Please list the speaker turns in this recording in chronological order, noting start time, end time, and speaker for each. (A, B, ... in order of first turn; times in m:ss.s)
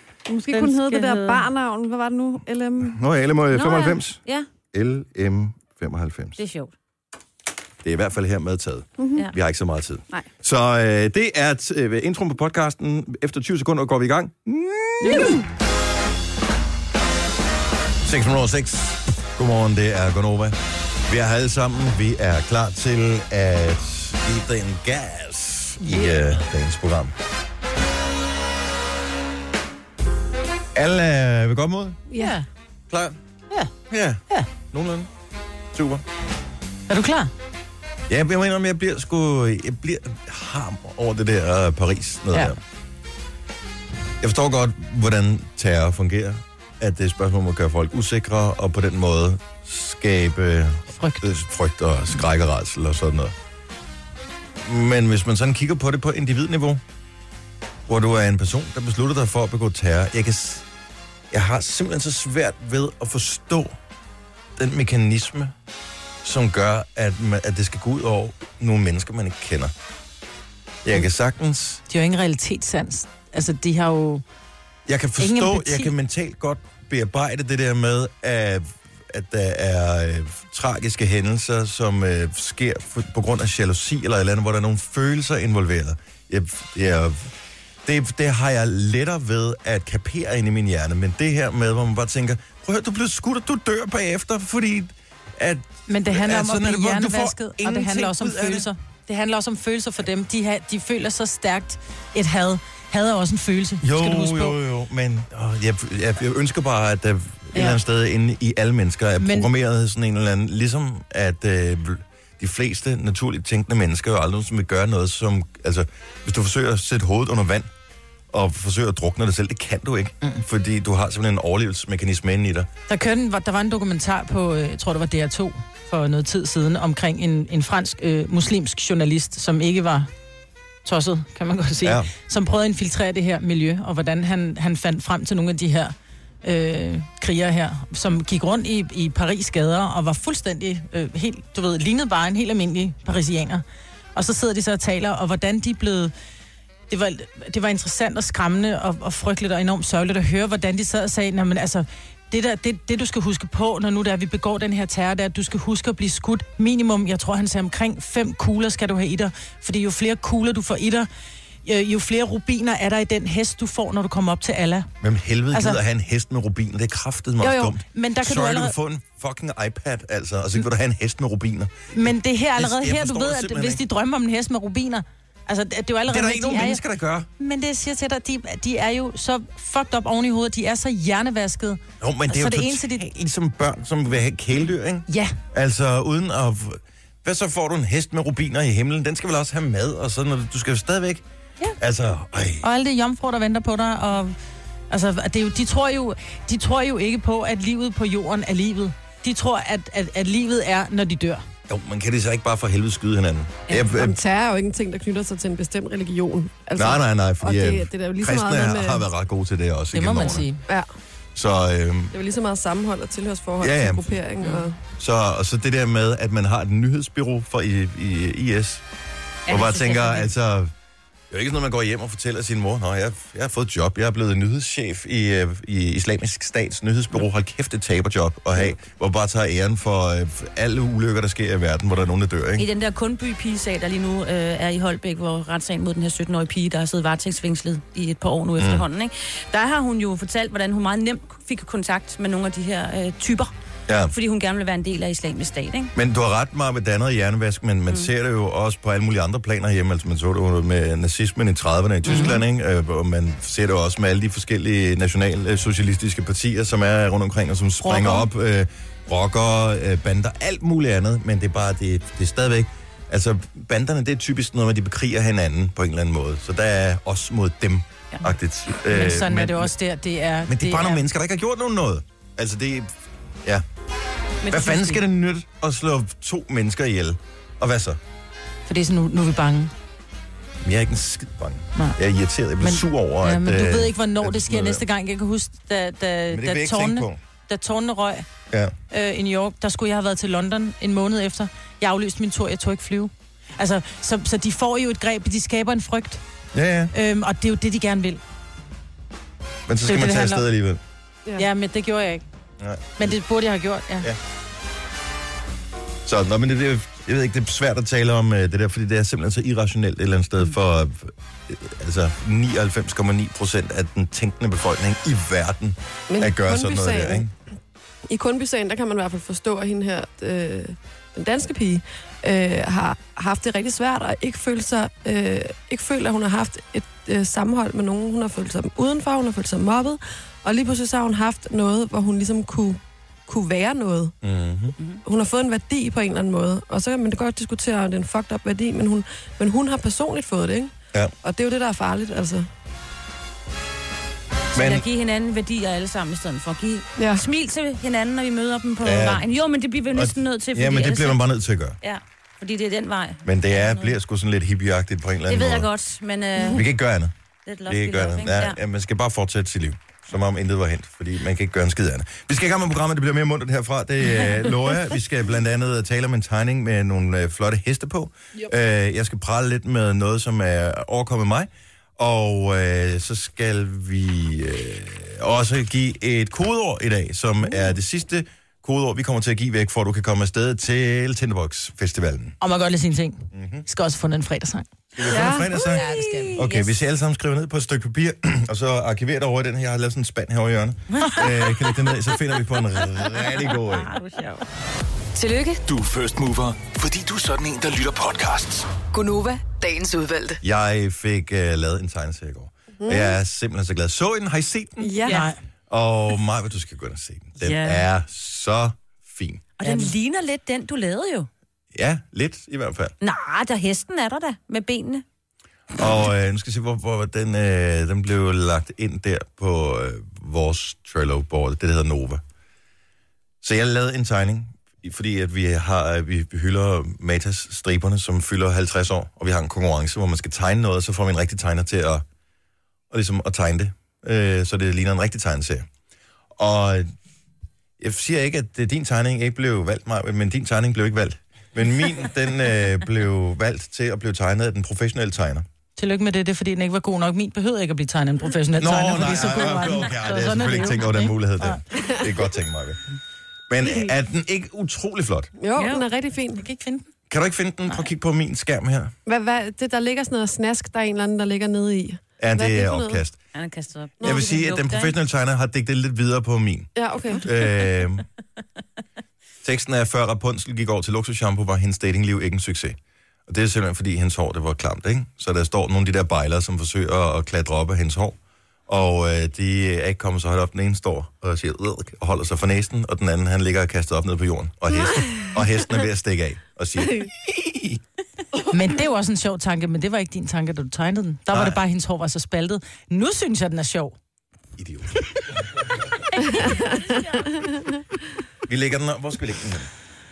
0:00.3-0:02.9 A
0:00.5-0:01.5 B
0:02.8-0:04.2 C
0:03.5-0:04.5 D
0:04.7-0:06.4 C
0:06.4-0:06.7 D
0:07.8-0:15.4 C
0:18.0-0:27.1 C
0:30.7-0:32.0 C
0:32.1-0:32.4 D
0:32.9-0:33.2 C
0:33.9-0:35.1 C
0:35.7-0:36.0 C
0:36.9-0:37.3 B
0:38.1-0:42.6 C
0:44.2-0:53.3 C
0:51.0-0:51.3 B
0:54.6-0:56.8 C
0:57.9-1:00.6 C
1:01.3-1:03.8 C
1:04.6-1:05.5 C
1:06.2-1:09.7 C
1:10.8-1:11.8 C
1:11.9-1:14.2 B
1:14.9-1:27.3 C
1:15.2-1:15.9 B
1:27.8-1:38.7 C
1:35.9-1:44.6 B
1:43.8-1:57.7 C
1:47.5-1:47.8 B
1:49.2-1:49.5 B
1:58.3-2:02.7 C
2:02.9-2:10.1 B
2:10.8-2:23.6 B
2:11.8-2:12.1 C
2:24.1-2:26.1 B
2:26.9-2:41.1 B
2:41.6-2:44.9 B
2:45.0-2:53.8 C
2:45.5-2:45.8 B
2:47.4-2:48.7 B
2:51.9-2:56.8 B
2:56.1-2:57.3 C
2:57.4-3:03.0 B
3:02.0-3:11.2 C
3:05.1-3:05.4 B
3:11.8-3:12.6 C
3:12.6-3:14.4 B
3:14.9-3:21.4 B
3:21.7-3:24.2 C
3:23.8-3:29.0 A
3:26.8-3:30.5 C
3:29.9-3:30.6 B
3:31.3-3:32.1 C
3:32.1-3:34.8 A
3:33.6-3:34.1 C
3:35.0-3:38.8 C
3:39.5-3:40.3 D
3:39.5-3:40.7 C
3:41.3-3:52.7 C
3:52.6-4:03.5 D
3:58.6-3:58.8 C
4:03.9-4:04.1 C
4:04.1-4:05.9 D
4:05.9-4:29.7 C
4:12.1-4:12.4 D
4:12.1-4:12.3 B
4:17.8-4:18.2 B
4:28.9-4:31.0 B
4:30.5-4:33.6 C
4:34.4-4:34.9 B
4:34.5-4:38.0 C
4:38.7-4:39.7 B
4:40.6-4:44.8 C
4:42.6-4:48.3 B
4:46.3-4:47.2 C
4:48.9-4:56.2 B
4:56.5-4:56.9 C
4:56.9-4:58.2 B
4:59.7-5:00.8 C
4:59.8-5:00.4 B
5:01.4-5:02.2 B
5:02.6-5:03.1 C
5:03.0-5:04.1 B
5:06.0-5:17.3 C
5:16.1-5:17.3 A
5:18.1-5:34.1 A
5:34.2-5:34.8 C
5:35.0-5:40.7 A
5:41.2-5:42.5 A
5:44.5-5:51.2 D
5:44.5-5:44.8 C
5:47.0-5:47.2 A
5:48.8-5:49.2 C
5:49.9-5:51.8 C
5:51.8-5:54.0 D
5:53.2-5:55.7 C
5:55.3-5:56.6 D
5:56.5-5:57.1 C
5:57.4-5:58.6 D
5:57.7-6:22.4 C
6:22.4-6:24.7 B
6:23.3-6:23.6 C
6:24.9-6:33.9 C
6:25.1-6:25.5 A
6:25.6-6:26.7 D
6:25.7-6:26.3 B
6:33.7-6:34.4 D
6:35.1-6:35.6 E
6:35.6-6:38.8 F
6:38.9-6:40.4 E
6:40.4-6:45.0 C
6:42.8-6:43.2 A
6:44.8-6:45.2 A
6:45.1-6:45.4 B
6:45.7-6:49.4 C
6:47.4-6:47.8 D
6:49.6-6:51.3 D
6:49.6-6:49.9 B
6:51.7-6:52.9 C
6:53.0-6:55.0 D
6:55.8-7:02.2 C
7:03.4-7:12.0 C
7:12.9-7:15.6 C
7:16.4-7:16.9 C
7:17.8-7:25.4 C
7:25.8-7:31.6 B
7:28.6-7:32.8 C
7:33.5-7:35.3 C
7:35.4-7:36.4 A
7:35.6-7:36.8 B
7:37.1-7:38.9 C
7:39.0-7:43.0 A
7:42.2-7:43.2 C
7:43.3-7:45.0 D
7:44.0-7:48.1 C
7:46.8-7:47.2 A
7:49.4-8:07.8 C
8:04.8-8:05.6 A
8:08.5-8:13.9 B
8:11.3-8:11.6 C
8:14.6-8:14.9 C
8:16.2-8:17.6 A
8:18.4-8:19.7 C